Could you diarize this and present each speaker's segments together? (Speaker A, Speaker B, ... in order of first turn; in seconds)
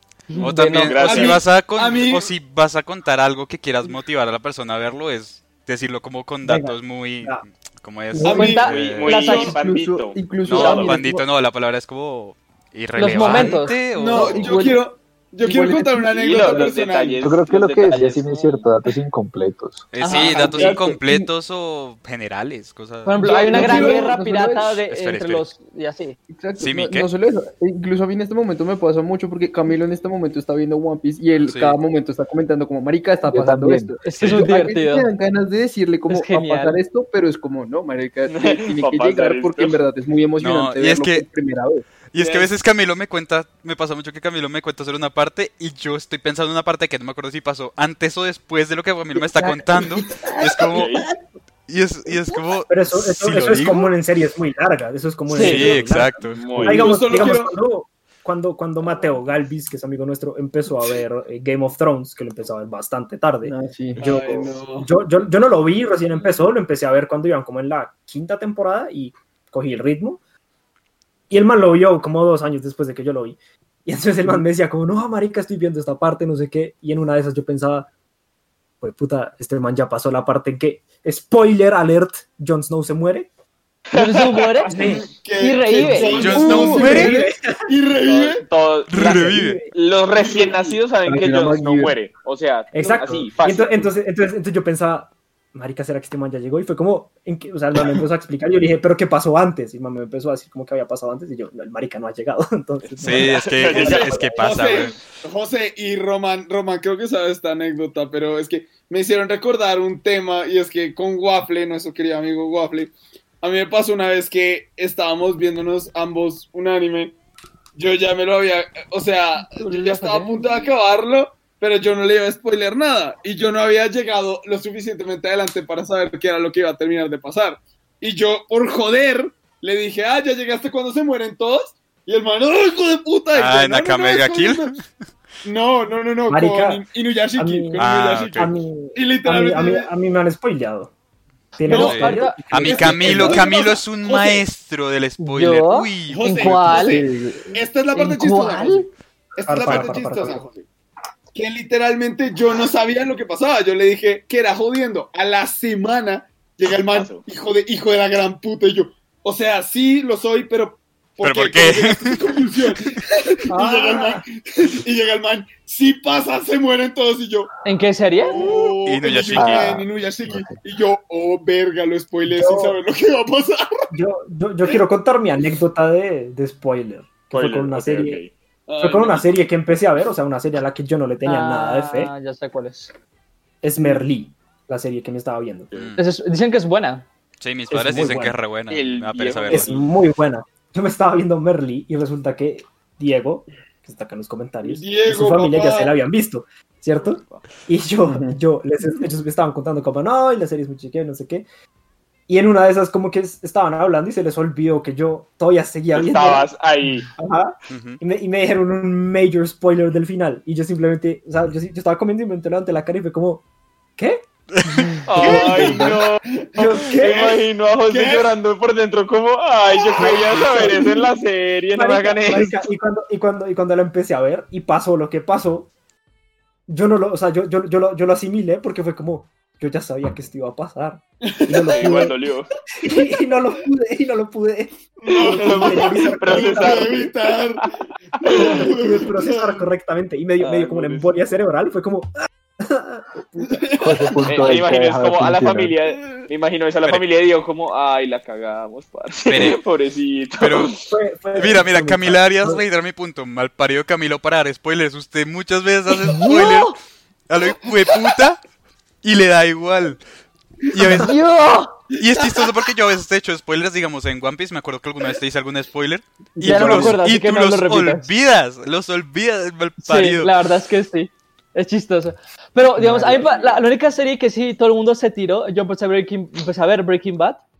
Speaker A: 0.3-1.1, 8.2-9.5, 12.9-14.8, 20.0-20.9, 23.1-26.2, 34.0-35.1, 36.1-36.8, 55.3-55.8, 83.9-86.2, 119.5-120.7, 141.7-142.5, 145.2-147.0, 147.9-148.9, 167.6-168.5, 181.2-182.9, 186.0-187.1, 255.9-256.7, 260.8-261.8, 266.4-268.1, 269.8-277.4
Speaker B: 0.4-9.3, 10.4-14.7, 19.9-23.9, 24.9-25.5, 26.6-27.1, 31.5-31.8, 34.1-34.5, 40.4-41.2, 42.0-50.9, 51.7-53.9, 55.3-56.6, 86.0-87.2, 88.9-89.7, 103.0-105.0, 133.3-134.9, 137.7-138.5, 141.7-146.8, 149.6-149.9, 161.2-162.7, 168.8-169.8, 185.7-186.0, 187.4-189.7, 207.7-208.0, 214.5-215.0, 249.3-249.6, 250.4-250.7, 251.3-256.8, 257.3-258.4, 259.0-260.0, 260.7-261.1, 261.9-270.4
Speaker C: 0.6-1.4, 8.5-11.0, 16.1-18.7, 38.3-39.8, 50.7-51.0, 56.4-57.0, 83.9-84.6, 88.0-93.9, 102.8-104.1, 156.9-157.2, 177.3-178.3, 188.7-189.9, 196.9-197.4, 205.9-207.1, 215.1-222.5, 231.8-232.5, 235.1-237.6, 238.2-238.7, 240.4-241.2, 244.3-250.8
Speaker D: 1.1-2.3, 8.2-9.6, 13.3-17.4, 23.2-24.0, 56.6-57.5, 64.0-64.9, 84.8-88.4, 90.1-90.8, 103.8-117.1, 117.8-134.7, 135.4-139.9, 141.7-142.1, 142.6-144.4, 146.1-150.7, 151.3-167.5, 168.2-173.8, 178.7-179.3, 194.6-195.9, 215.1-218.3, 219.9-220.9, 231.2-232.1, 235.0-237.7, 238.2-239.6, 243.5-244.1, 246.0-246.3, 262.1-262.5
Speaker E: 6.4-7.4, 52.7-70.2, 71.3-77.9, 78.8-83.3, 84.7-85.1, 85.8-87.7, 88.9-89.7, 92.7-104.8, 136.3-136.8, 137.4-140.9, 141.6-143.4, 149.4-150.4, 163.5-164.2, 172.3-172.8, 173.9-178.2, 178.8-182.1, 183.6-185.7, 187.7-188.4, 189.5-201.4, 202.3-206.5, 207.1-213.4, 214.0-216.1, 216.6-217.3, 220.0-221.0, 221.7-225.7, 226.7-232.2, 232.8-237.1, 238.3-243.6, 250.8-252.6, 266.4-266.9, 272.8-273.1
Speaker F: 9.4-11.3, 15.4-16.8, 20.2-21.3, 23.4-24.8, 26.3-41.9, 49.8-50.1, 63.4-64.3, 86.6-87.1, 91.0-92.0, 92.8-93.3, 146.8-147.6, 198.1-198.4, 272.9-273.4
Speaker G: 17.2-19.9, 33.3-34.0, 169.3-170.6, 243.8-245.7